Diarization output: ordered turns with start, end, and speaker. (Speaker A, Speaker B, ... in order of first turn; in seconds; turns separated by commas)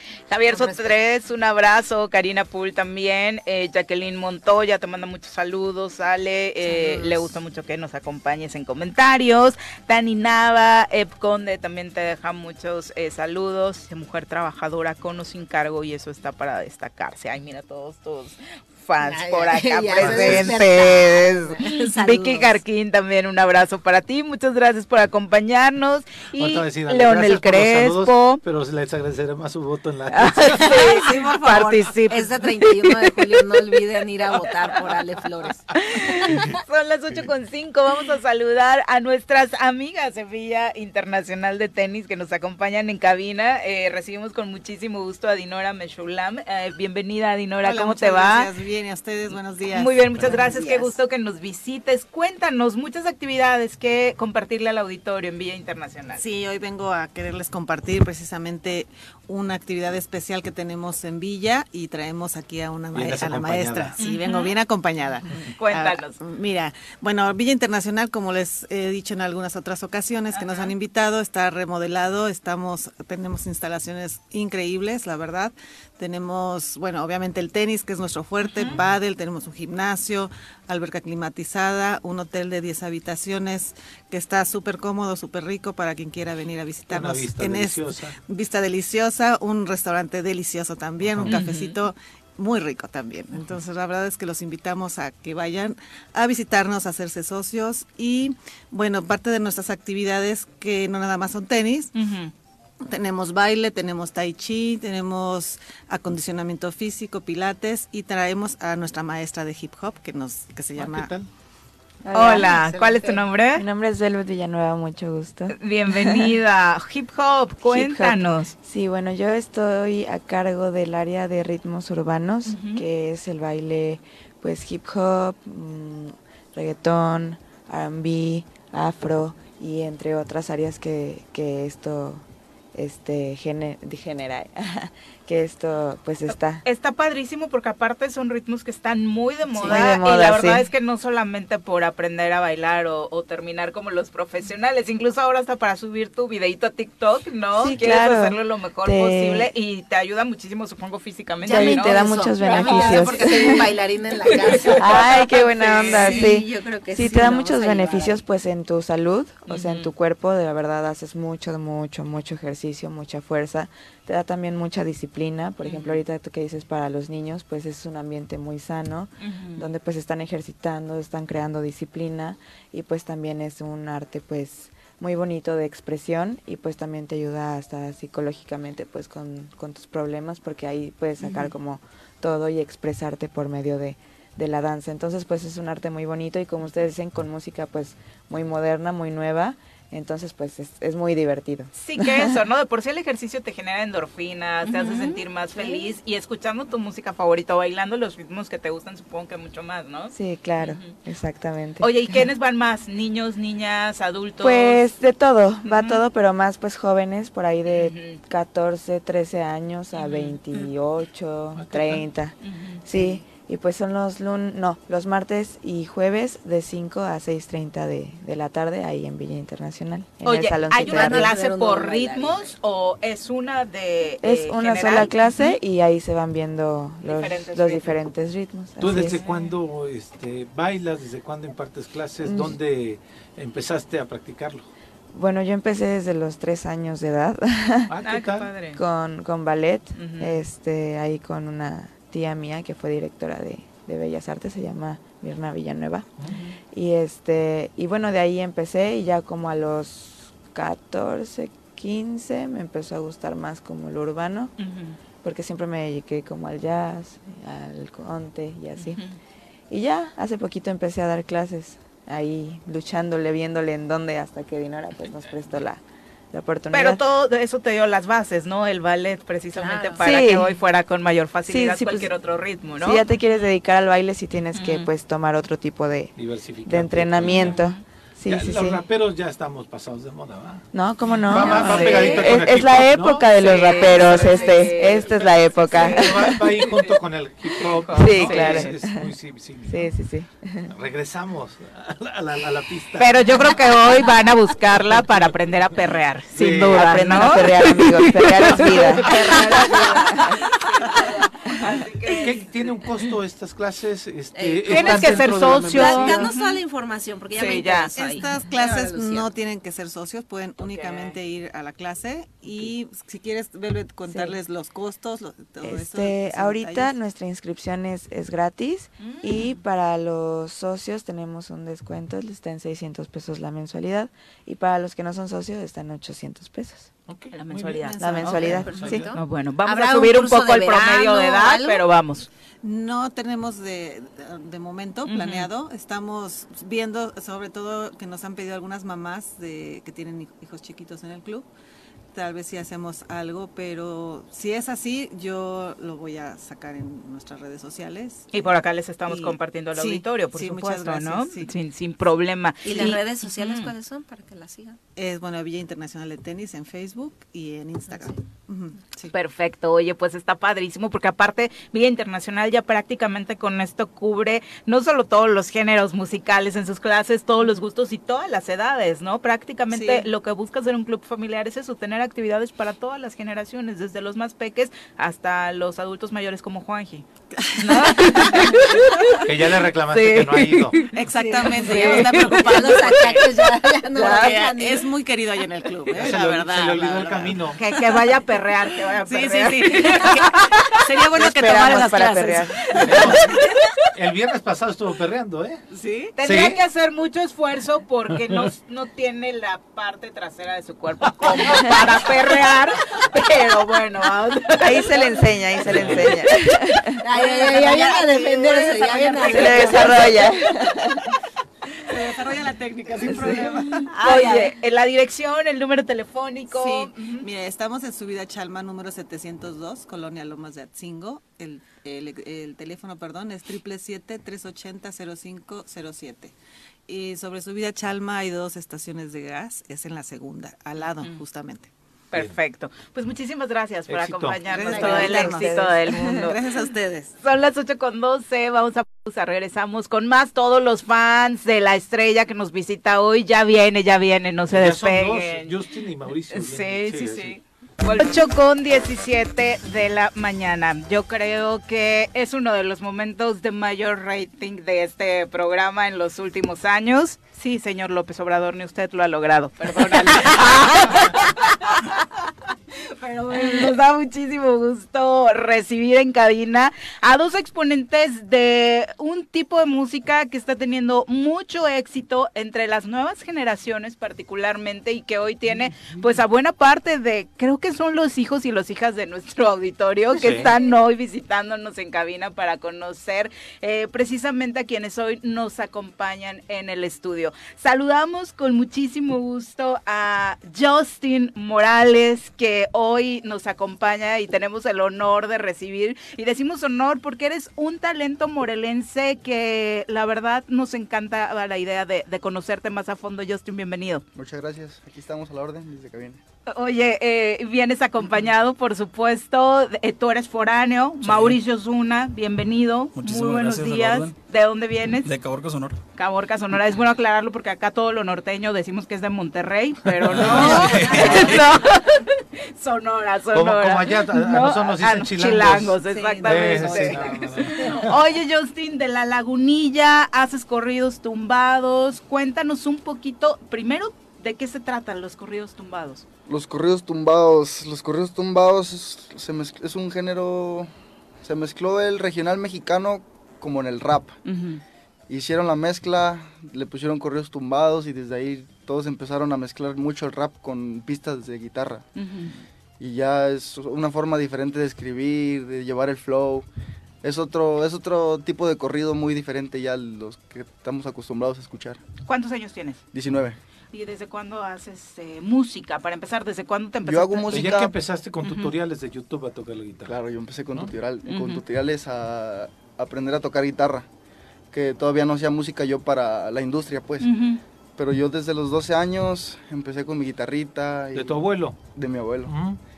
Speaker A: 0.3-28.4, Speaker B: 0.5-1.0, Speaker B: 6.6-7.3, Speaker B: 19.0-22.6, Speaker C: 20.0-20.6, Speaker C: 26.4-30.7, Speaker A: 30.1-33.6, Speaker B: 30.6-35.7, Speaker A: 35.8-48.5, Speaker D: 47.6-50.9, Speaker A: 49.8-56.2, Speaker B: 50.3-50.9, Speaker D: 56.1-101.9, Speaker C: 62.9-64.0, Speaker A: 64.0-64.5, Speaker A: 65.6-66.2, Speaker A: 70.3-70.7, Speaker A: 78.5-78.8, Speaker C: 86.9-88.2, Speaker C: 91.1-91.4, Speaker A: 91.3-91.8, Speaker A: 102.0-102.3, Speaker D: 102.8-111.2, Speaker C: 110.8-111.3, Speaker E: 112.0-112.8, Speaker A: 112.1-113.7, Speaker D: 112.2-113.0, Speaker E: 113.5-116.3, Speaker A: 115.5-118.5, Speaker E: 117.6-132.2, Speaker A: 122.5-122.8, Speaker E: 132.8-136.6, Speaker A: 136.6-153.6, Speaker E: 139.5-140.7, Speaker E: 147.6-149.5, Speaker B: 151.4-155.1, Speaker E: 151.5-153.7, Speaker A: 154.3-156.3, Speaker E: 154.8-192.3, Speaker B: 155.7-158.2, Speaker A: 157.1-157.4, Speaker A: 159.5-159.9, Speaker A: 165.6-166.0, Speaker A: 169.2-169.7, Speaker A: 191.7-200.9, Speaker B: 194.8-195.2, Speaker E: 200.1-202.3, Speaker A: 201.8-204.8, Speaker E: 204.4-221.3, Speaker A: 205.6-206.0, Speaker A: 207.7-208.2, Speaker A: 209.9-210.4, Speaker C: 211.6-212.0, Speaker A: 212.4-213.2, Speaker A: 220.2-225.6, Speaker B: 220.9-222.5, Speaker E: 224.2-229.2, Speaker A: 227.1-228.0, Speaker C: 228.8-234.7, Speaker A: 228.8-229.6, Speaker E: 232.2-232.6, Speaker E: 235.1-237.9, Speaker C: 237.9-238.5, Speaker A: 238.0-238.8, Speaker E: 238.7-246.1, Speaker A: 240.0-240.4, Speaker E: 246.7-254.5, Speaker A: 254.6-255.0, Speaker E: 255.2-259.0, Speaker A: 258.8-259.2, Speaker E: 259.7-267.0, Speaker A: 266.7-273.1, Speaker B: 269.6-270.2, Speaker E: 270.0-270.6, Speaker E: 271.5-272.1, Speaker E: 272.8-276.1, Speaker A: 274.6-274.9, Speaker C: 276.2-277.6, Speaker E: 276.6-278.8, Speaker A: 277.4-277.8, Speaker C: 278.2-280.7, Speaker E: 280.7-286.5, Speaker C: 281.3-283.3, Speaker A: 281.4-282.4, Speaker A: 283.3-287.0, Speaker C: 285.8-290.0, Speaker E: 287.9-289.1, Speaker A: 288.0-288.7, Speaker E: 289.7-290.7, Speaker C: 290.7-293.6, Speaker A: 293.0-302.8, Speaker C: 294.7-295.7, Speaker C: 296.3-297.7, Speaker E: 296.5-300.4, Speaker C: 302.2-306.2, Speaker B: 304.4-309.3, Speaker A: 304.7-306.6, Speaker A: 307.4-308.2, Speaker D: 308.0-317.0, Speaker A: 310.6-311.1, Speaker E: 314.1-314.4, Speaker E: 315.6-326.9, Speaker A: 319.0-319.6, Speaker C: 327.1-327.9, Speaker A: 327.3-332.3, Speaker D: 327.7-328.7, Speaker E: 328.0-329.1, Speaker B: 328.6-331.9, Speaker C: 328.7-329.1, Speaker D: 332.6-341.5, Speaker A: 335.1-335.5, Speaker D: 342.1-348.3, Speaker A: 348.3-353.7, Speaker D: 349.1-351.5, Speaker B: 352.6-354.8, Speaker D: 352.7-353.0, Speaker D: 355.0-359.1, Speaker A: 359.1-379.2, Speaker D: 369.7-370.1, Speaker D: 377.4-379.2, Speaker C: 379.2-380.8, Speaker A: 379.9-383.2, Speaker D: 380.9-383.2, Speaker B: 381.2-384.9, Speaker D: 384.0-387.8, Speaker C: 385.9-387.6, Speaker A: 387.6-393.3, Speaker D: 389.0-392.8, Speaker E: 391.1-393.1, Speaker C: 392.8-393.2, Speaker C: 393.9-395.6, Speaker D: 395.7-396.1, Speaker A: 396.2-406.5, Speaker C: 396.2-396.6, Speaker E: 404.6-407.0, Speaker B: 407.0-410.1, Speaker A: 407.1-410.3, Speaker E: 409.2-411.0, Speaker D: 411.9-414.4, Speaker A: 413.9-417.3, Speaker B: 414.0-414.5, Speaker D: 416.5-426.4, Speaker D: 426.9-431.7, Speaker A: 432.1-436.4, Speaker C: 433.9-434.4, Speaker D: 434.5-437.1, Speaker E: 434.8-436.0, Speaker A: 437.2-445.6, Speaker C: 444.5-447.4, Speaker A: 446.3-462.0, Speaker A: 463.3-504.0, Speaker C: 480.2-480.5, Speaker F: 504.1-506.2, Speaker A: 506.5-515.1, Speaker G: 511.0-511.4, Speaker G: 513.0-514.1, Speaker G: 515.0-515.8, Speaker A: 516.0-536.0, Speaker C: 520.0-521.2, Speaker G: 520.2-520.8, Speaker B: 520.7-521.3, Speaker C: 523.3-527.9, Speaker D: 525.9-527.0, Speaker B: 526.3-527.3, Speaker F: 536.3-540.7, Speaker F: 541.2-544.2, Speaker A: 544.2-544.6, Speaker F: 545.1-551.9, Speaker A: 552.0-552.3, Speaker F: 552.8-556.5, Speaker F: 557.0-561.8, Speaker A: 562.0-562.8, Speaker F: 562.9-563.4, Speaker A: 563.7-567.5, Speaker F: 566.9-567.8, Speaker C: 567.3-570.0, Speaker A: 568.2-568.5, Speaker F: 569.9-573.9, Speaker A: 571.0-571.4, Speaker F: 574.5-577.1, Speaker A: 577.0-577.4, Speaker F: 577.8-582.3, Speaker C: 580.9-581.6, Speaker C: 582.2-582.6